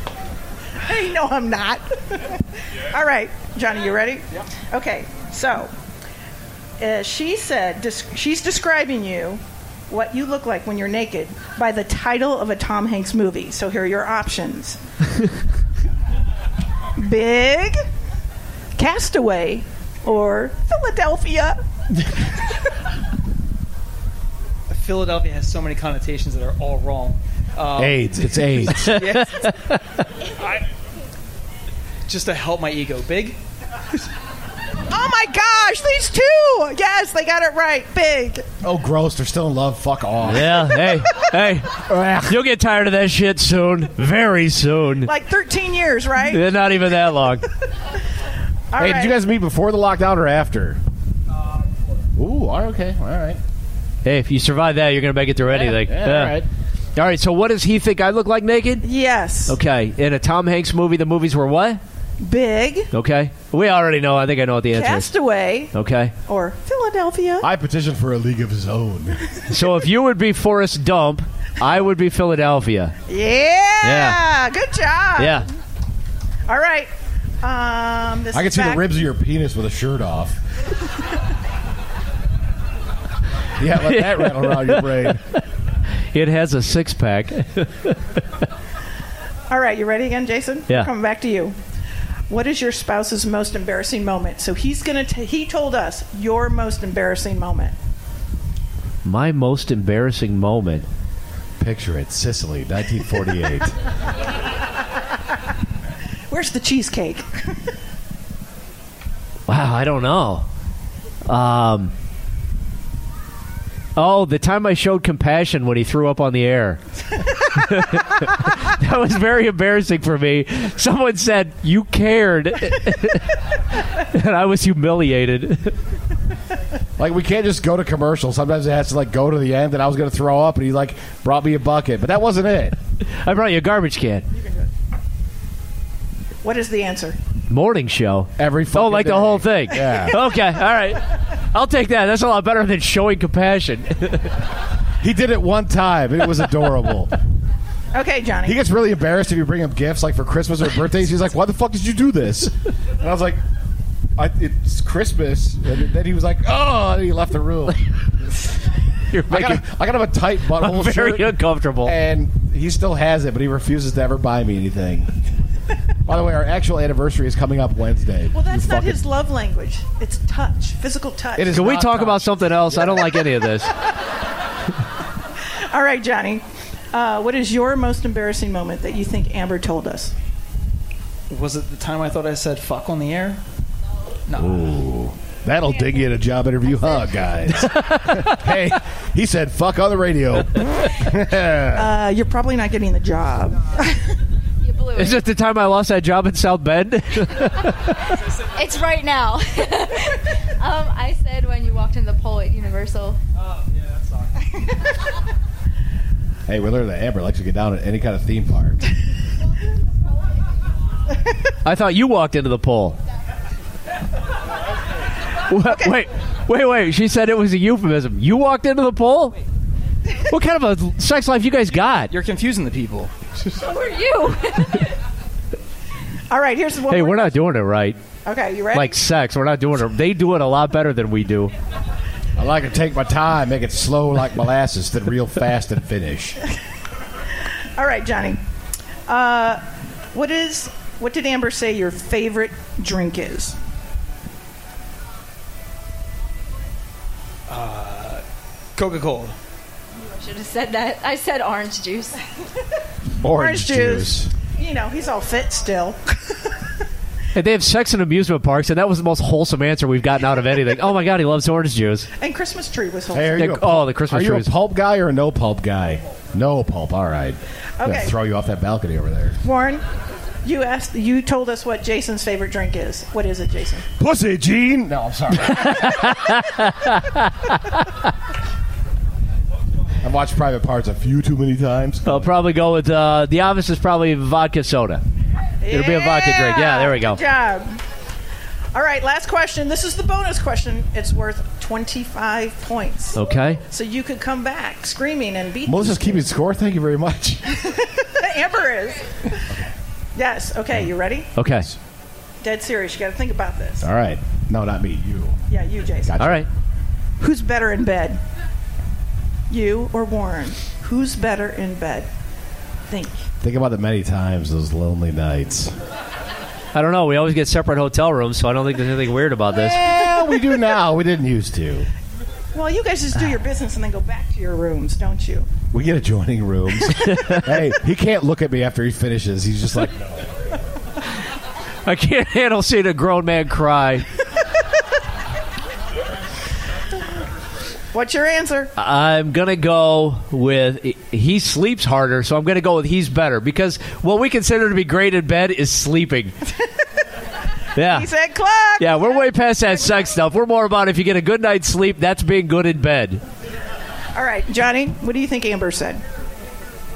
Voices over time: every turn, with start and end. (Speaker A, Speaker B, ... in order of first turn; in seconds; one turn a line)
Speaker A: 0.8-5.7
Speaker A: 6.8-14.8
Speaker A: 17.0-17.8
Speaker A: 18.8-21.6
Speaker B: 24.7-29.6
Speaker C: 27.8-29.0
Speaker B: 30.3-30.6
Speaker B: 32.1-33.4
Speaker A: 34.9-38.5
Speaker C: 38.6-40.7
Speaker D: 40.3-45.1
Speaker C: 41.8-42.4
Speaker A: 45.0-46.4
Speaker D: 46.2-47.5
Speaker A: 48.7-49.1
Speaker C: 48.8-50.8
Speaker C: 52.2-53.4
Speaker D: 54.0-56.4
Speaker C: 55.5-56.5
Speaker D: 57.0-58.8
Speaker A: 58.8-59.6
Speaker D: 59.5-61.8
Speaker A: 62.2-62.9
Speaker D: 62.9-65.1
Speaker A: 64.7-65.7
Speaker D: 65.7-66.1
Speaker A: 66.2-67.5
Speaker C: 67.4-69.2
Speaker D: 69.5-72.9
Speaker A: 73.1-75.4
Speaker D: 73.8-74.2
Speaker D: 75.2-75.5
Speaker A: 76.5-76.9
Speaker A: 77.4-79.0
Speaker C: 78.3-80.4
Speaker C: 83.6-85.2
Speaker D: 83.8-85.4
Speaker D: 86.1-88.2
Speaker A: 89.5-91.5
Speaker A: 92.3-97.7
Speaker D: 99.0-100.8
Speaker C: 101.6-103.8
Speaker A: 106.3-107.6
Speaker D: 109.5-110.4
Speaker D: 111.3-111.9
Speaker D: 114.0-116.8
Speaker D: 117.4-125.7
Speaker C: 127.0-132.8
Speaker D: 133.1-134.2
Speaker A: 134.3-134.7
Speaker A: 136.4-137.2
Speaker D: 137.5-144.3
Speaker C: 138.4-140.2
Speaker C: 145.0-147.1
Speaker A: 147.9-148.6
Speaker C: 148.4-153.4
Speaker C: 154.2-157.8
Speaker D: 159.1-159.6
Speaker C: 159.3-165.1
Speaker D: 160.5-161.9
Speaker C: 166.1-169.0
Speaker A: 168.3-171.6
Speaker C: 171.3-173.2
Speaker D: 171.5-173.7
Speaker A: 175.7-180.1
Speaker B: 181.3-183.4
Speaker B: 184.3-184.7
Speaker C: 184.3-191.9
Speaker D: 187.5-188.5
Speaker A: 191.7-194.1
Speaker E: 194.6-195.2
Speaker D: 194.9-197.9
Speaker E: 198.4-203.2
Speaker C: 206.5-208.8
Speaker D: 211.6-213.0
Speaker D: 215.5-219.3
Speaker A: 215.7-216.0
Speaker D: 220.3-222.1
Speaker B: 222.1-223.1
Speaker E: 223.5-224.9
Speaker A: 226.3-227.4
Speaker D: 226.9-228.0
Speaker A: 228.2-228.9
Speaker D: 228.7-231.5
Speaker C: 232.4-236.4
Speaker A: 237.8-238.4
Speaker A: 239.1-239.6
Speaker A: 240.1-243.6
Speaker B: 247.5-248.2
Speaker B: 248.8-249.3
Speaker E: 250.0-252.2
Speaker C: 253.2-254.3
Speaker A: 253.3-256.5
Speaker D: 257.3-262.1
Speaker A: 262.2-263.5
Speaker C: 263.1-269.4
Speaker D: 263.4-264.5
Speaker A: 267.8-268.1
Speaker A: 269.4-269.8
Speaker A: 270.4-273.9
Speaker C: 274.0-276.2
Speaker D: 275.5-277.7
Speaker C: 280.0-282.3
Speaker D: 282.0-285.0
Speaker A: 285.6-287.8
Speaker D: 285.7-287.2
Speaker A: 288.7-296.2
Speaker D: 293.1-293.6
Speaker C: 295.6-297.5
Speaker A: 297.5-299.5
Speaker A: 300.1-301.3
Speaker D: 301.4-301.7
Speaker A: 302.4-303.9
Speaker C: 303.8-305.4
Speaker A: 305.5-306.3
Speaker C: 306.1-306.4
Speaker D: 306.2-306.5
Speaker A: 307.2-308.2
Speaker A: 309.5-312.1
Speaker A: 312.9-313.2
Speaker C: 313.4-315.7
Speaker D: 316.7-319.8
Speaker C: 319.5-321.9
Speaker A: 322.5-325.5
Speaker C: 325.7-330.6
Speaker D: 331.9-334.1
Speaker A: 337.9-338.7
Speaker D: 338.8-346.3
Speaker D: 347.8-348.1
Speaker A: 347.8-349.2
Speaker D: 348.8-353.2
Speaker A: 354.1-356.0